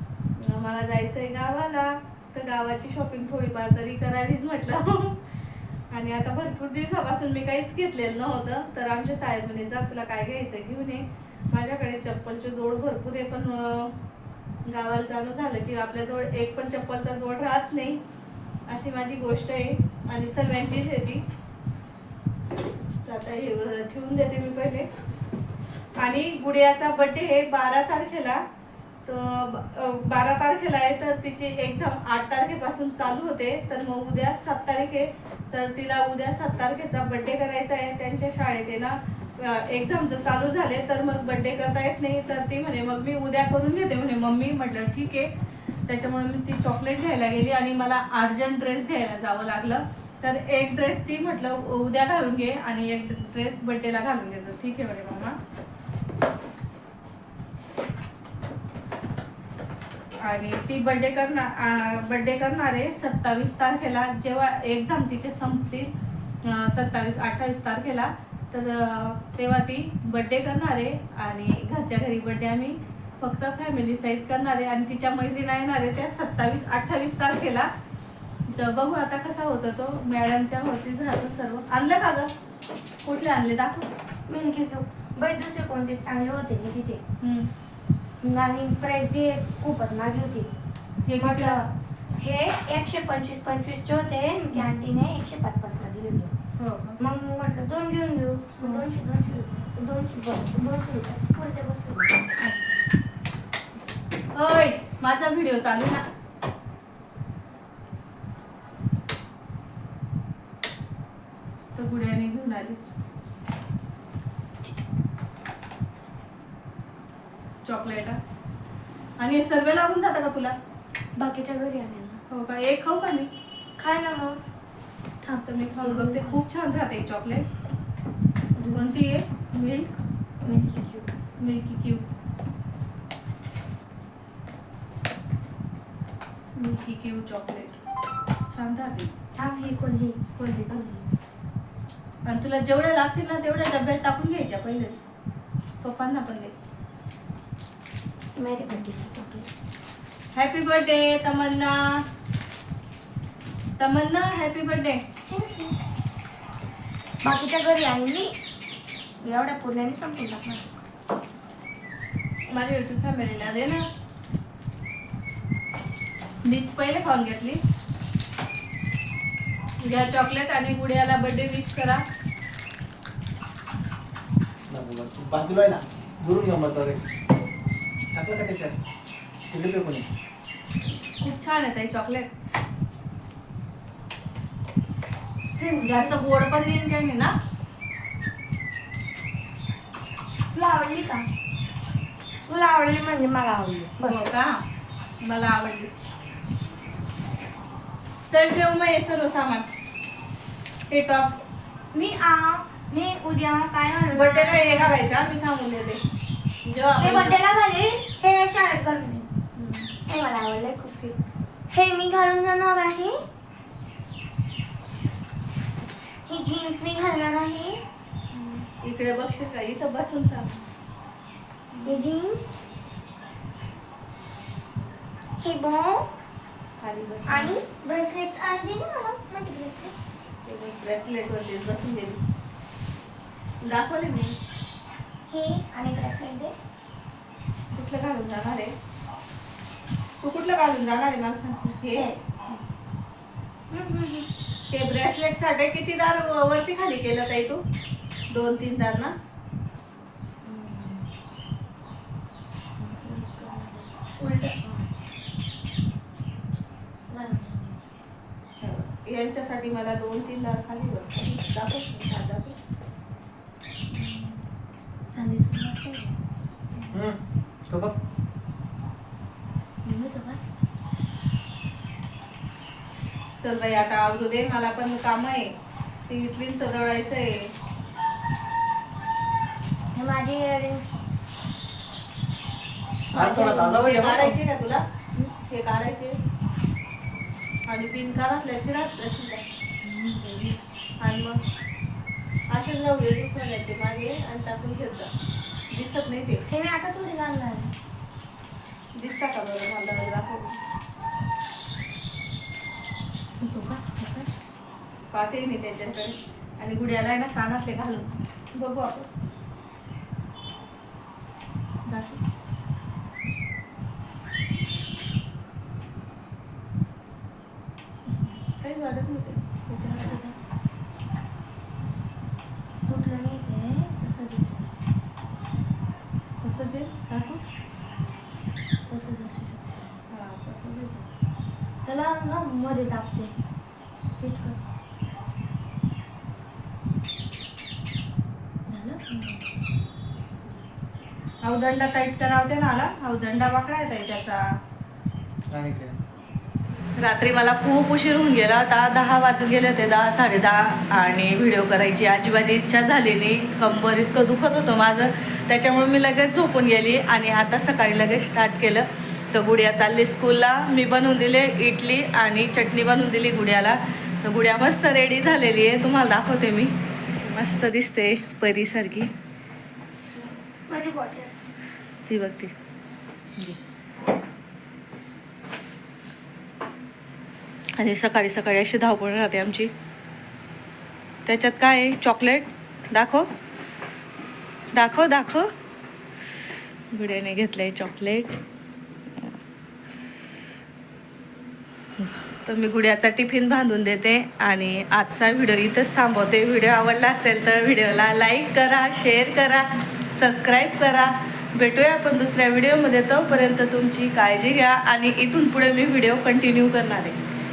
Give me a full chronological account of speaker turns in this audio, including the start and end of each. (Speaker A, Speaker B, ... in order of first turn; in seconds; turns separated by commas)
Speaker A: 0.4-5.2, Speaker A: 5.9-14.0, Speaker A: 14.7-18.0, Speaker A: 18.7-21.2, Speaker A: 23.0-24.9, Speaker A: 26.0-28.4, Speaker A: 29.1-45.3, Speaker A: 45.9-55.4, Speaker A: 60.2-65.9, Speaker A: 66.5-77.7, Speaker A: 78.5-82.3, Speaker A: 83.0-83.9, Speaker B: 84.3-87.0, Speaker A: 87.2-87.5, Speaker B: 88.2-90.5, Speaker A: 91.1-91.6, Speaker B: 91.2-96.3, Speaker A: 96.6-97.0, Speaker B: 97.0-102.2, Speaker A: 102.4-102.8, Speaker A: 104.3-106.0, Speaker A: 111.8-113.0, Speaker A: 117.7-118.2, Speaker A: 119.2-120.5, Speaker B: 121.2-122.2, Speaker A: 122.3-123.3, Speaker B: 123.8-124.4, Speaker B: 125.2-126.4, Speaker A: 125.3-127.5, Speaker B: 128.6-128.9, Speaker A: 128.7-129.9, Speaker B: 130.4-131.1, Speaker A: 131.4-132.1, Speaker A: 136.6-137.8, Speaker A: 138.5-139.1, Speaker B: 139.4-141.0, Speaker A: 140.4-140.9, Speaker A: 142.3-145.0, Speaker A: 145.8-146.5, Speaker B: 148.4-149.5, Speaker A: 150.3-152.0, Speaker A: 153.8-155.0, Speaker B: 155.3-155.8, Speaker B: 157.2-158.3, Speaker B: 159.2-160.7, Speaker A: 162.5-163.8, Speaker A: 166.4-167.6, Speaker A: 169.8-172.0, Speaker C: 174.7-177.1, Speaker C: 178.2-178.8, Speaker C: 179.5-180.1, Speaker A: 181.2-182.3, Speaker B: 185.6-186.2, Speaker A: 185.8-187.3, Speaker B: 190.5-191.3, Speaker B: 192.5-194.2, Speaker A: 194.0-194.6, Speaker A: 195.2-195.9, Speaker A: 198.3-199.7, Speaker A: 200.9-201.4, Speaker B: 201.9-204.9, Speaker A: 204.1-206.0, Speaker A: 206.6-207.4, Speaker B: 207.0-209.3, Speaker A: 209.6-209.9, Speaker B: 210.1-211.2, Speaker B: 211.7-213.2, Speaker B: 216.3-217.8, Speaker A: 218.3-220.7, Speaker A: 221.7-222.0, Speaker B: 221.8-222.7, Speaker B: 225.4-226.1, Speaker A: 226.8-227.6, Speaker B: 227.3-230.2, Speaker A: 230.4-232.2, Speaker A: 233.6-234.4, Speaker B: 235.3-236.5, Speaker A: 237.7-238.7, Speaker A: 240.2-242.1, Speaker B: 241.9-242.6, Speaker B: 243.7-244.3, Speaker A: 244.7-247.6, Speaker A: 248.3-249.1, Speaker B: 250.4-251.1, Speaker B: 252.8-254.9, Speaker B: 257.1-257.8, Speaker A: 258.6-262.6, Speaker B: 263.9-264.5, Speaker B: 265.1-266.2, Speaker C: 266.9-267.2, Speaker C: 267.7-267.9, Speaker B: 269.9-270.4, Speaker A: 273.4-275.6, Speaker A: 276.1-277.5, Speaker B: 279.9-281.0, Speaker C: 283.1-284.4, Speaker A: 283.1-284.8, Speaker A: 285.5-286.2, Speaker A: 287.7-289.4, Speaker B: 289.8-290.6, Speaker A: 291.0-291.4, Speaker A: 292.5-295.1, Speaker A: 295.7-296.4, Speaker B: 296.5-297.7, Speaker A: 299.0-300.6, Speaker B: 303.4-304.3, Speaker A: 305.1-309.1, Speaker A: 311.9-312.2, Speaker A: 318.1-320.2, Speaker B: 319.9-320.4, Speaker B: 322.9-324.6, Speaker A: 326.4-327.4, Speaker B: 328.9-329.8, Speaker A: 330.1-331.1, Speaker B: 331.8-333.4, Speaker B: 334.2-334.6, Speaker B: 338.7-339.4, Speaker A: 341.4-344.4, Speaker C: 345.5-346.0, Speaker A: 347.0-369.1, Speaker B: 370.1-371.3, Speaker A: 372.1-372.5, Speaker A: 377.8-379.7, Speaker A: 381.3-383.3, Speaker A: 384.7-385.5, Speaker A: 386.9-388.4, Speaker A: 392.0-407.2